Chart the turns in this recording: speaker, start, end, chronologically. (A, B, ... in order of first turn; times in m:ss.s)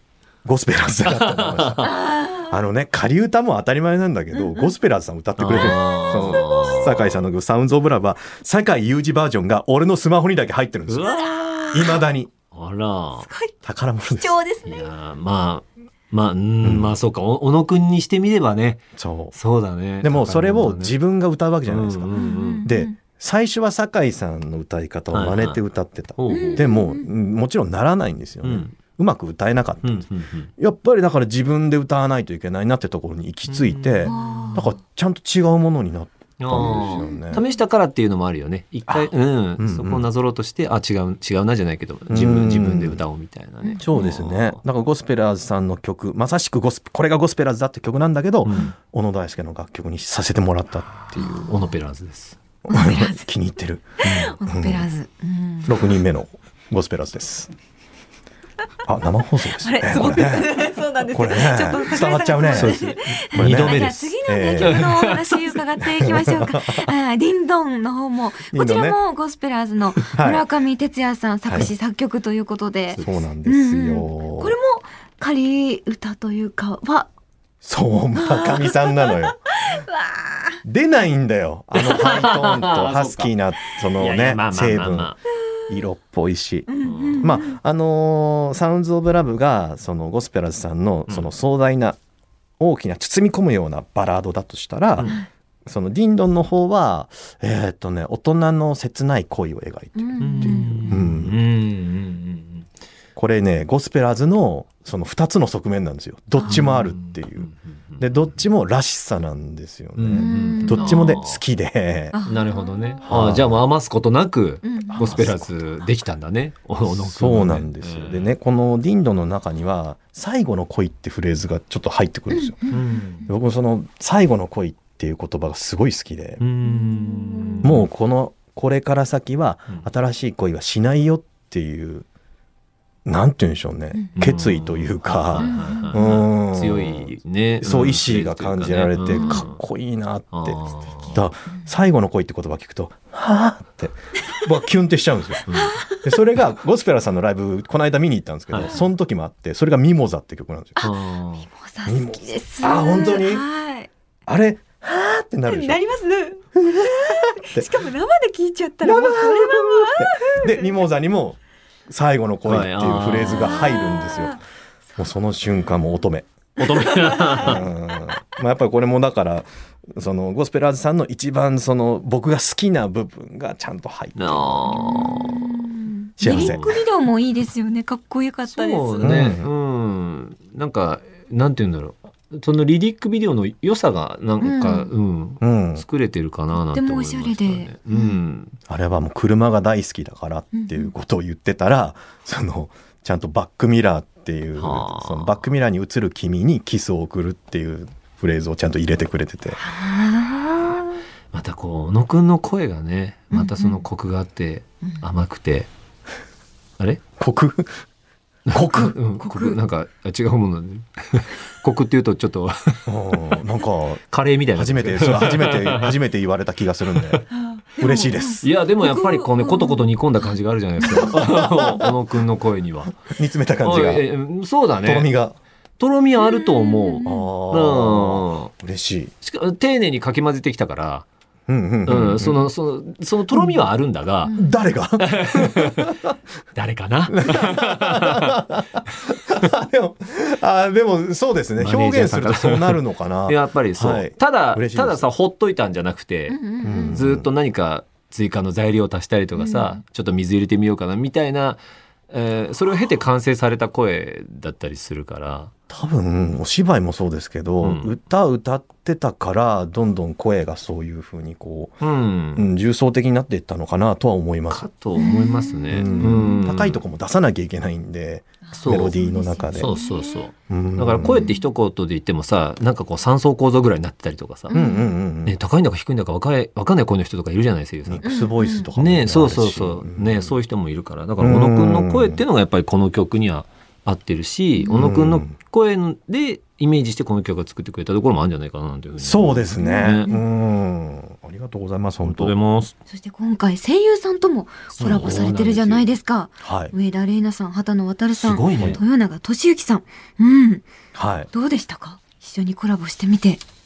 0:00.4-0:11.1 A
0:01.0-0:02.0 B
0:01.8-0:02.5 C
0:04.3-0:04.7 C
0:05.4-0:07.2 B
0:05.5-0:06.9 C
0:10.9-0:12.0 B
0:11.0-0:12.0 C
0:11.7-0:12.3 A
0:12.5-0:13.3 B
0:13.2-0:13.6 C
0:13.6-0:14.4 A
0:14.2-0:14.9 C
0:14.6-0:21.0 B
0:16.6-0:16.9 A
0:19.0-0:19.3 A
0:20.0-0:37.4 A
0:21.7-0:22.7 B
0:22.1-0:22.9 C
0:25.1-0:25.6 B
0:26.2-0:26.7 B
0:26.3-0:27.1 C
0:28.4-0:28.8 B
0:29.8-0:30.5 B
0:33.5-0:34.7 B
0:34.0-0:34.7 C
0:36.4-0:44.6 B
0:36.6-0:37.4 C
0:38.9-0:40.0 A
0:42.1-0:43.0 A
0:43.6-0:44.1 C
0:43.8-0:51.5 A
0:48.4-0:48.7 B
0:51.0-0:52.4 B
0:51.2-0:51.6 C
0:52.6-0:54.9 A
0:52.7-0:53.2 C
0:54.0-0:55.9 C
0:55.6-0:57.5 A
0:58.8-1:04.9 A
0:59.6-1:17.1 C
1:02.5-1:05.6 B
1:06.0-1:06.9 A
1:08.5-1:09.0 A
1:10.1-1:10.4 A
1:13.0-1:14.6 A
1:17.6-1:19.8 A
1:18.2-1:20.6 C
1:20.6-1:25.1 A
1:21.7-1:23.3 B
1:24.0-1:25.2 B
1:25.7-1:32.0 A
1:26.7-1:27.6 C
1:26.8-1:27.3 B
1:32.6-1:35.1 A
1:34.9-1:35.2 B
1:35.6-1:41.4 A
1:40.0-1:41.1 C
1:40.2-1:42.7 B
1:43.2-1:52.2 A
1:46.4-1:46.7 C
1:46.4-1:48.4 B
1:50.0-1:51.4 B
1:50.1-1:51.2 C
1:52.1-1:53.0 C
1:52.2-1:58.3 B
1:53.0-1:53.6 A
1:54.6-1:55.3 C
1:54.9-1:55.5 A
1:56.8-2:02.7 A
2:02.3-2:03.3 C
2:02.7-2:03.3 B
2:03.2-2:06.4 A
2:06.4-2:07.8 B
2:06.6-2:07.7 C
2:07.6-2:12.0 A
2:13.0-2:20.6 A
2:14.1-2:19.6 B
2:15.4-2:16.2 C
2:19.1-2:19.4 C
2:20.3-2:21.2 B
2:21.1-2:25.5 A
2:21.1-2:21.7 C
2:25.4-2:25.8 B
2:25.5-2:26.2 C
2:26.0-2:30.9 A
2:28.5-2:28.8 B
2:30.8-2:33.9 C
2:30.8-2:31.5 B
2:31.8-2:33.4 A
2:34.2-2:35.8 A
2:35.4-2:40.7 C
2:36.5-2:37.7 A
2:38.8-2:44.4 A
2:42.4-2:43.7 B
2:43.2-2:44.4 C
2:45.0-2:46.3 A
2:46.6-2:47.6 B
2:46.8-2:47.5 C
2:47.4-2:55.5 A
2:54.2-2:55.4 B
2:54.6-2:59.2 C
2:56.2-2:56.7 A
2:56.2-2:56.8 B
2:58.5-3:08.6 B
2:59.0-2:59.5 A
3:04.4-3:04.9 C
3:05.4-3:05.8 A
3:06.5-3:08.2 C
3:08.7-3:19.7 A
3:10.5-3:10.9 C
3:14.6-3:15.4 B
3:19.6-3:21.0 C
3:21.3-3:25.7 B
3:23.3-3:23.8 C
3:27.2-3:27.7 A
3:28.5-3:33.3 B
3:28.5-3:29.0 A
3:29.2-3:29.6 C
3:32.9-3:37.2 A
3:34.1-3:36.0 B
3:36.9-3:37.2 B
3:37.3-3:40.3 C
3:37.8-3:38.5 A
3:38.4-3:43.0 B
3:40.8-3:41.1 C
3:40.9-3:41.9 A
3:43.0-3:44.0 A
3:43.6-3:45.1 B
3:44.8-3:45.4 A
3:45.8-3:48.5 B
3:46.2-3:47.3 C
3:47.0-3:49.1 A
3:49.2-3:51.1 B
3:51.5-3:52.4 A
3:51.8-3:54.3 B
3:54.2-3:54.5 C
3:54.3-3:56.1 A
3:55.0-3:56.0 B
3:56.5-3:58.5 B
3:57.1-4:05.1 A
4:01.6-4:15.5 B
4:06.3-4:07.0 C
4:06.6-4:07.3 A
4:09.4-4:09.8 C
4:15.7-4:21.8 A
4:17.6-4:17.9 B
4:21.8-4:22.5 B
4:22.3-4:24.7 A
4:24.5-4:26.8 B
4:25.0-4:26.4 C
4:25.7-4:29.8 A
4:28.5-4:30.3 C
4:28.5-4:29.0 B
4:29.5-4:34.6 B
4:30.5-4:31.3 A
4:31.1-4:31.4 C
4:34.5-4:34.9 C
4:34.5-4:35.4 A
4:35.2-4:38.2 B
4:37.9-4:40.3 A
4:38.0-4:38.7 C
4:38.7-4:50.1 B
4:41.2-4:42.2 A
4:44.7-4:45.3 A
4:49.0-4:52.3 A
4:49.6-4:50.2 C
4:52.0-4:52.7 B
4:52.9-5:00.6 C
4:54.8-4:55.9 B
4:56.4-4:56.7 A
4:58.2-4:58.8 B
5:00.9-5:01.3 A
5:01.3-5:03.4 C